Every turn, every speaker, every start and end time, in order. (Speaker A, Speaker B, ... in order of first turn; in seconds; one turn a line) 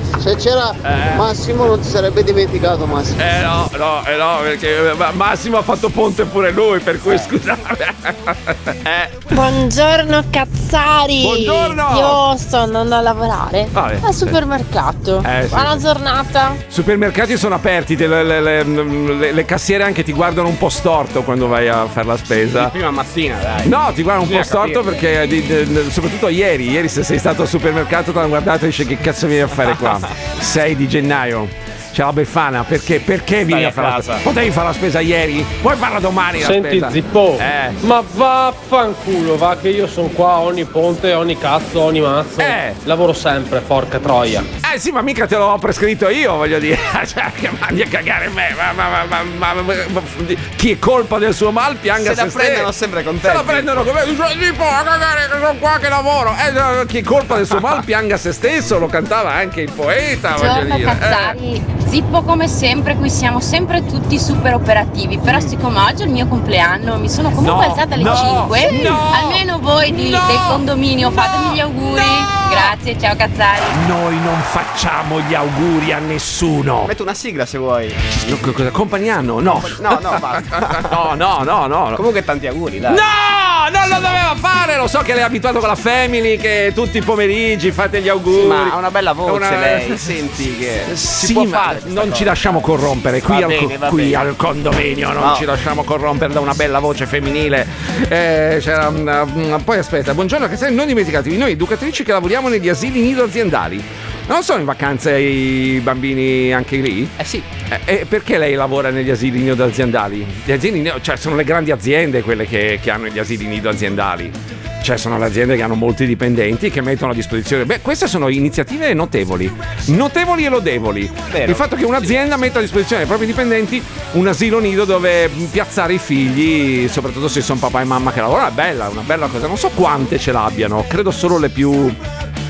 Speaker A: 0.2-3.2
Speaker B: 0.8-1.2
Speaker B: 3.2-9.4
Speaker C: 9.3-16.6
Speaker B: 11.2-12.2
Speaker B: 13.7-14.4
Speaker B: 15.2-15.8
Speaker B: 16.7-22.7
Speaker D: 22.5-25.0
Speaker B: 23.6-37.8
Speaker D: 29.7-30.0
Speaker D: 33.5-34.1
Speaker E: 36.4-44.5
Speaker B: 42.4-42.8
Speaker B: 44.6-52.7
Speaker D: 52.0-53.9
Speaker B: 53.2-61.4
Speaker F: 60.4-73.8
Speaker B: 65.2-65.5
Speaker B: 67.4-72.7
Speaker B: 73.7-76.9
Speaker D: 76.8-78.0
Speaker B: 78.2-82.0
Speaker D: 79.6-81.0
Speaker D: 81.9-83.0
Speaker B: 82.9-90.0
Speaker D: 83.8-84.2
Speaker D: 88.3-92.7
Speaker B: 90.9-107.1
Speaker D: 93.2-94.3
Speaker D: 95.2-95.5
Speaker D: 107.2-107.5
Speaker B: 107.7-132.0
Speaker D: 121.3-122.1